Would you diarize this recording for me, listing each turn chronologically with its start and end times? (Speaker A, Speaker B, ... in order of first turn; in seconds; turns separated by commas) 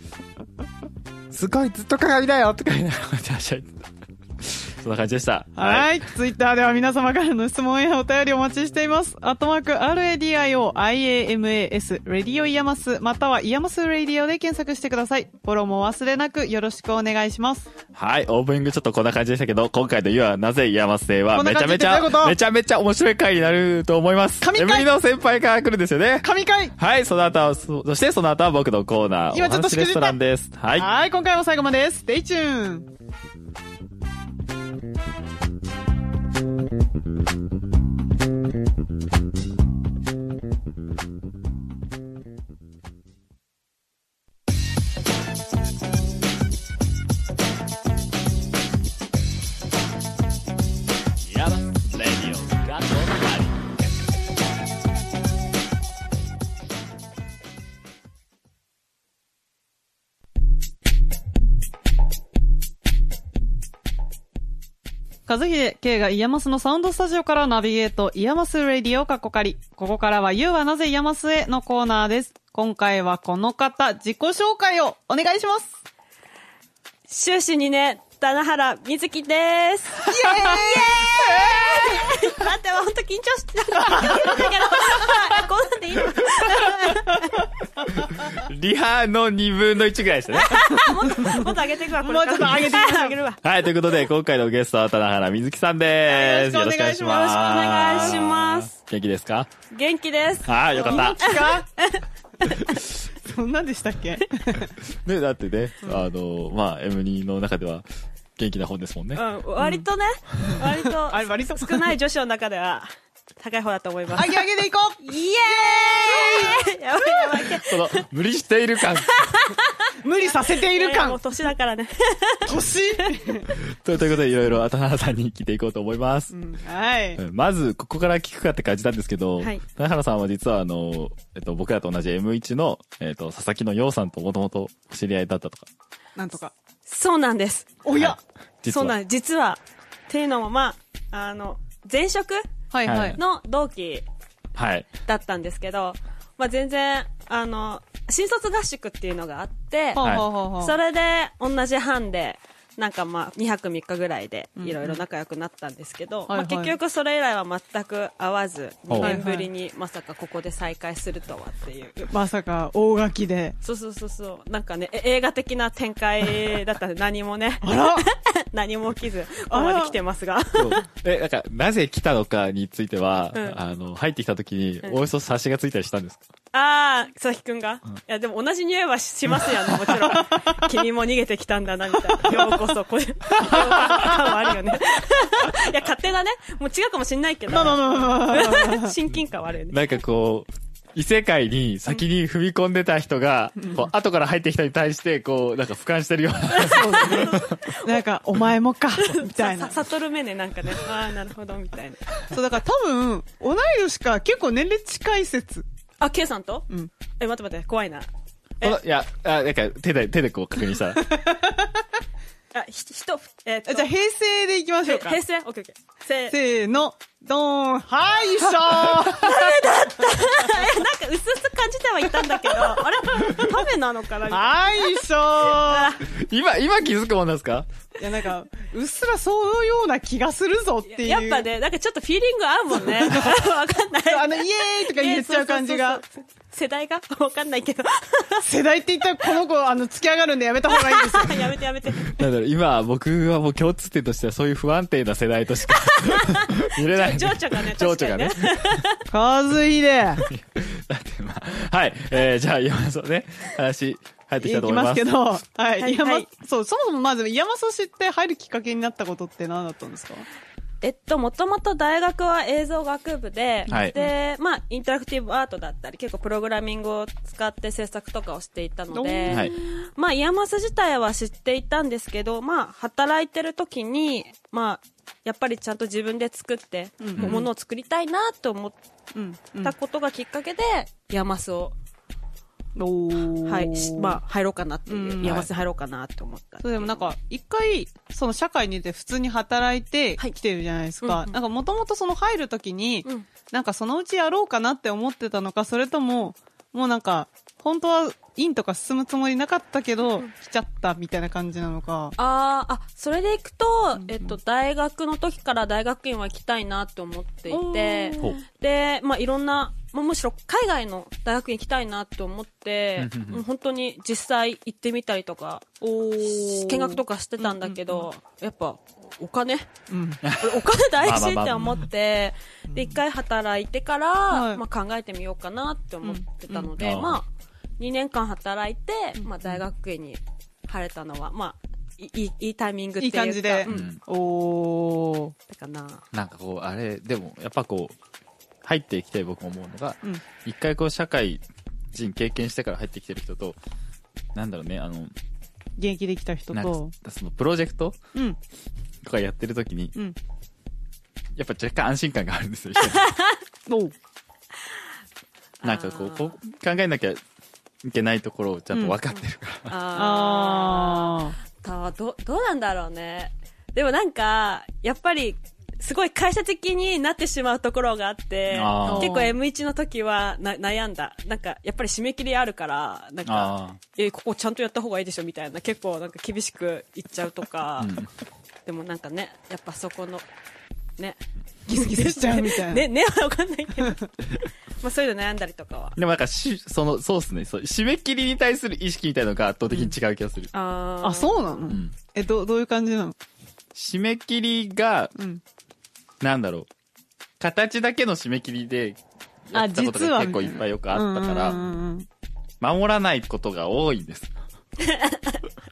Speaker A: 1.3-6.0, Speaker B: 5.5-17.7, Speaker A: 17.9-26.2, Speaker B: 21.3-22.4, Speaker B: 24.4-24.9, Speaker B: 26.2-26.7, Speaker A: 26.8-30.9, Speaker B: 29.3-30.2, Speaker B: 30.7-32.9, Speaker A: 51.2-53.6, Speaker B: 65.3-75.7, Speaker C: 77.1-87.5, Speaker B: 80.0-82.0, Speaker A: 81.3-81.8, Speaker B: 83.8-84.5, Speaker A: 87.9-91.3, Speaker C: 90.4-93.4, Speaker B: 91.2-93.2, Speaker A: 93.4-99.5, Speaker B: 96.1-98.1, Speaker C: 97.1-98.7, Speaker C: 99.7-102.8, Speaker A: 100.4-101.5, Speaker B: 100.7-101.7, Speaker B: 102.5-104.7, Speaker A: 104.6-109.2, Speaker B: 105.8-106.1, Speaker C: 109.1-114.4, Speaker B: 109.6-109.9, Speaker B: 110.4-111.9, Speaker B: 114.1-117.6, Speaker C: 115.0-118.0, Speaker A: 117.6-119.2, Speaker C: 119.1-123.0, Speaker B: 120.0-121.2, Speaker B: 122.5-123.6, Speaker A: 123.5-126.3, Speaker B: 126.3-127.2, Speaker A: 127.2-135.7, Speaker B: 136.2-136.5, Speaker C: 136.8-137.7, Speaker B: 137.8-138.2, Speaker A: 137.9-138.9, Speaker C: 138.7-142.5, Speaker B: 142.7-143.2, Speaker A: 142.8-143.2, Speaker C: 143.1-144.1, Speaker A: 144.5-144.9, Speaker C: 145.0-162.1, Speaker B: 149.9-150.8, Speaker A: 150.0-150.3, Speaker B: 154.6-155.0, Speaker B: 156.3-156.7, Speaker A: 158.9-159.1, Speaker B: 159.0-159.5, Speaker B: 162.1-163.6, Speaker C: 163.6-170.8, Speaker B: 167.6-168.1, Speaker B: 169.5-169.9, Speaker A: 170.5-176.2, Speaker C: 173.3-173.6, Speaker C: 176.5-189.8, Speaker B: 180.1-180.7, Speaker B: 182.1-182.6, Speaker B: 183.4-184.5, Speaker B: 187.5-188.9, Speaker A: 189.7-197.6, Speaker B: 193.6-193.8, Speaker C: 196.5-198.0, Speaker B: 196.6-199.8, Speaker C: 199.0-202.2, Speaker B: 202.3-205.6, Speaker C: 206.0-206.7, Speaker C: 207.2-208.1, Speaker A: 208.6-211.2, Speaker B: 211.0-211.8, Speaker C: 212.5-213.9, Speaker B: 213.7-215.2, Speaker C: 214.8-216.3, Speaker B: 216.3-219.6, Speaker C: 218.9-226.0, Speaker B: 222.4-222.8, Speaker B: 224.3-226.0, Speaker A: 226.0-227.7, Speaker B: 228.0-231.5, Speaker C: 230.9-238.4, Speaker B: 232.8-233.4, Speaker B: 234.1-236.0, Speaker B: 238.4-241.6, Speaker C: 240.7-242.1, Speaker A: 242.0-248.8, Speaker C: 245.7-249.0, Speaker B: 249.1-250.3, Speaker A: 250.2-255.2, Speaker B: 254.4-260.3, Speaker C: 255.8-256.2, Speaker C: 260.8-278.8, Speaker A: 263.7-263.9, Speaker B: 263.7-264.1, Speaker B: 268.9-269.6, Speaker B: 277.0-277.5, Speaker B: 279.1-279.7, Speaker C: 279.6-281.8, Speaker B: 282.8-284.2, Speaker C: 283.4-287.1, Speaker B: 284.9-285.4, Speaker A: 285.2-285.5, Speaker B: 286.6-302.1, Speaker C: 291.0-291.4, Speaker C: 302.2-315.6, Speaker B: 307.5-308.4, Speaker A: 313.0-313.4, Speaker B: 315.8-318.1, Speaker C: 316.2-319.7, Speaker B: 319.9-320.2, Speaker A: 320.2-321.9, Speaker C: 320.3-327.3, Speaker B: 322.7-323.0, Speaker B: 324.3-324.6, Speaker B: 326.0-326.7, Speaker A: 326.8-327.2, Speaker C: 327.8-333.9, Speaker B: 329.2-329.6, Speaker B: 333.0-335.3, Speaker A: 333.7-334.0, Speaker C: 335.5-336.0, Speaker A: 336.1-337.9, Speaker A: 338.6-343.6, Speaker A: 344.3-345.1, Speaker B: 345.8-346.9, Speaker A: 346.5-348.0, Speaker A: 349.0-349.9, Speaker A: 351.3-353.1, Speaker C: 352.9-353.4, Speaker B: 353.7-353.9, Speaker C: 355.6-356.4, Speaker A: 355.6-357.2, Speaker A: 357.8-359.8, Speaker B: 358.7-359.0, Speaker C: 359.7-378.0, Speaker B: 359.9-361.4, Speaker A: 368.5-369.1, Speaker B: 368.8-369.3, Speaker A: 373.2-373.8, Speaker A: 377.8-378.1, Speaker C: 378.6-380.3, Speaker C: 381.0-386.0, Speaker B: 381.7-382.9, Speaker A: 385.9-390.5, Speaker C: 390.5-391.7, Speaker B: 391.0-393.2, Speaker A: 391.7-391.9, Speaker A: 393.7-395.1, Speaker B: 395.1-395.4, Speaker A: 396.2-396.7, Speaker A: 397.4-401.6, Speaker B: 399.5-402.1, Speaker A: 402.6-404.3, Speaker C: 404.8-405.4